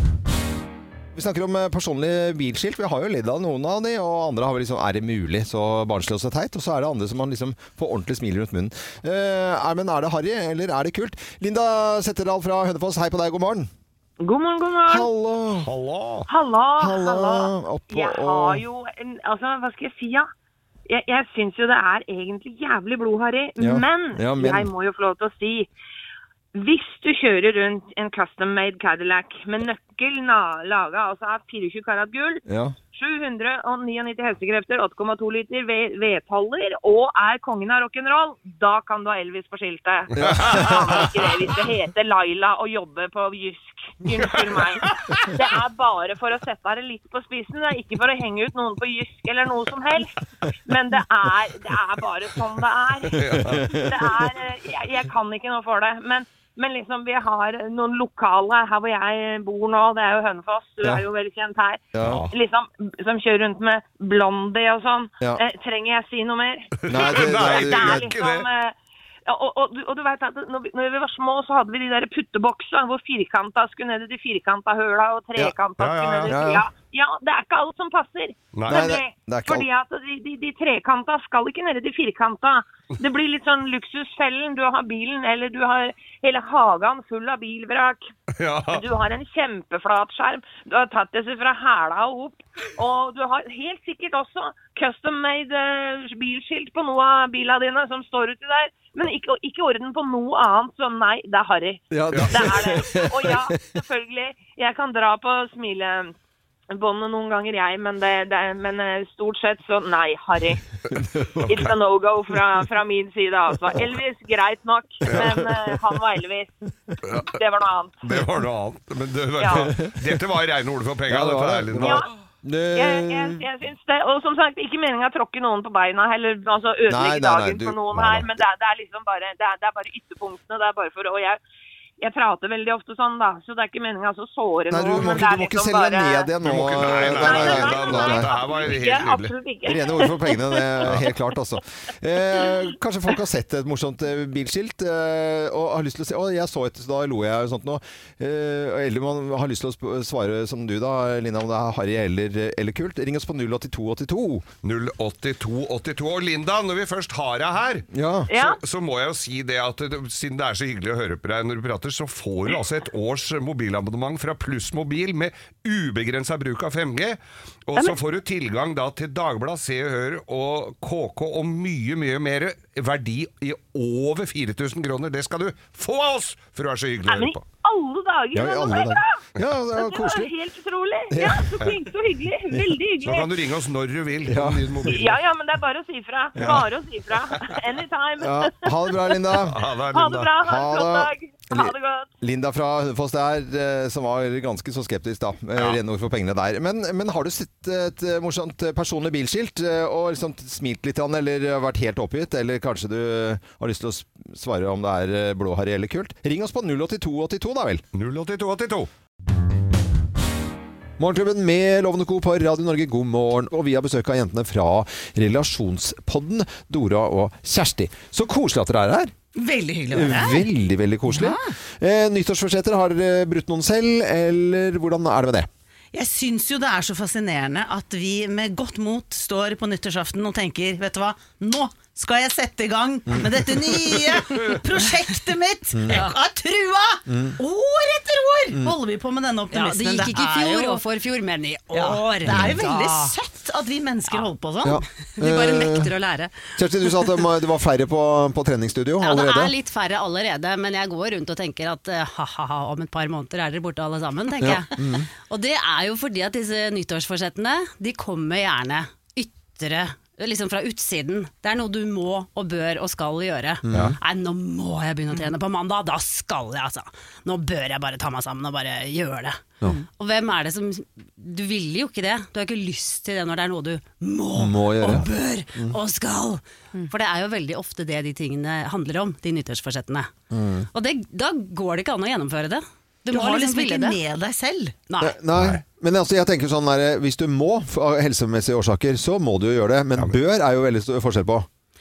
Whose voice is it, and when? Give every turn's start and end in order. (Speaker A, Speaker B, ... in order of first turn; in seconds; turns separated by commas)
Speaker A: 1.1-13.7, Speaker B: 14.2-15.1, Speaker A: 14.9-15.7, Speaker C: 15.6-16.3, Speaker B: 16.3-20.3, Speaker A: 16.8-18.6, Speaker B: 20.9-25.7, Speaker A: 23.6-24.7, Speaker B: 26.6-50.1, Speaker A: 32.5-32.8, Speaker A: 40.2-41.0, Speaker C: 40.2-41.2, Speaker C: 44.2-45.3, Speaker B: 50.7-61.8, Speaker C: 53.2-53.7, Speaker A: 53.2-54.2, Speaker A: 61.9-62.2, Speaker C: 62.0-62.3, Speaker B: 62.3-68.8, Speaker C: 66.8-68.5, Speaker A: 66.9-68.1, Speaker B: 69.3-88.1, Speaker C: 75.8-76.4, Speaker A: 76.3-76.6, Speaker C: 78.5-78.9, Speaker A: 78.7-79.7, Speaker C: 88.4-88.8, Speaker B: 88.7-106.1, Speaker A: 101.9-103.6, Speaker C: 102.1-102.4, Speaker B: 106.7-110.6, Speaker C: 111.4-111.7, Speaker B: 111.5-116.5, Speaker C: 115.1-115.6, Speaker C: 117.0-117.3, Speaker B: 117.2-118.0, Speaker C: 118.0-122.0, Speaker B: 119.4-119.7, Speaker A: 121.1-123.5, Speaker B: 121.8-122.1, Speaker B: 122.8-131.4, Speaker A: 126.9-128.3, Speaker B: 132.0-136.3, Speaker A: 134.7-138.3, Speaker C: 136.4-139.3, Speaker B: 136.9-141.0, Speaker A: 139.7-154.5, Speaker C: 154.6-177.4, Speaker A: 157.9-158.3, Speaker B: 158.3-158.6, Speaker B: 177.1-179.2, Speaker A: 178.3-180.3, Speaker B: 179.7-183.3, Speaker A: 181.1-181.5, Speaker C: 183.0-185.2, Speaker A: 184.3-184.9, Speaker B: 184.9-189.4, Speaker A: 186.4-186.6, Speaker A: 188.2-189.6, Speaker C: 189.3-190.3, Speaker B: 189.9-192.1, Speaker A: 190.4-207.8, Speaker C: 207.9-208.9, Speaker A: 211.0-219.1, Speaker D: 219.4-220.5, Speaker A: 219.9-225.5, Speaker D: 221.1-221.4, Speaker D: 225.9-240.8, Speaker A: 235.7-236.0, Speaker E: 235.9-236.2, Speaker A: 237.1-237.4, Speaker E: 239.5-243.2, Speaker D: 241.7-244.8, Speaker A: 242.3-242.6, Speaker A: 244.6-245.9, Speaker E: 245.2-246.3, Speaker A: 246.6-249.6, Speaker E: 249.0-280.1, Speaker A: 254.4-255.1, Speaker A: 263.6-264.0, Speaker A: 274.4-275.8, Speaker A: 280.3-280.7, Speaker E: 280.7-284.0, Speaker D: 283.1-284.8, Speaker E: 284.9-285.2, Speaker A: 285.0-291.5, Speaker C: 285.3-285.6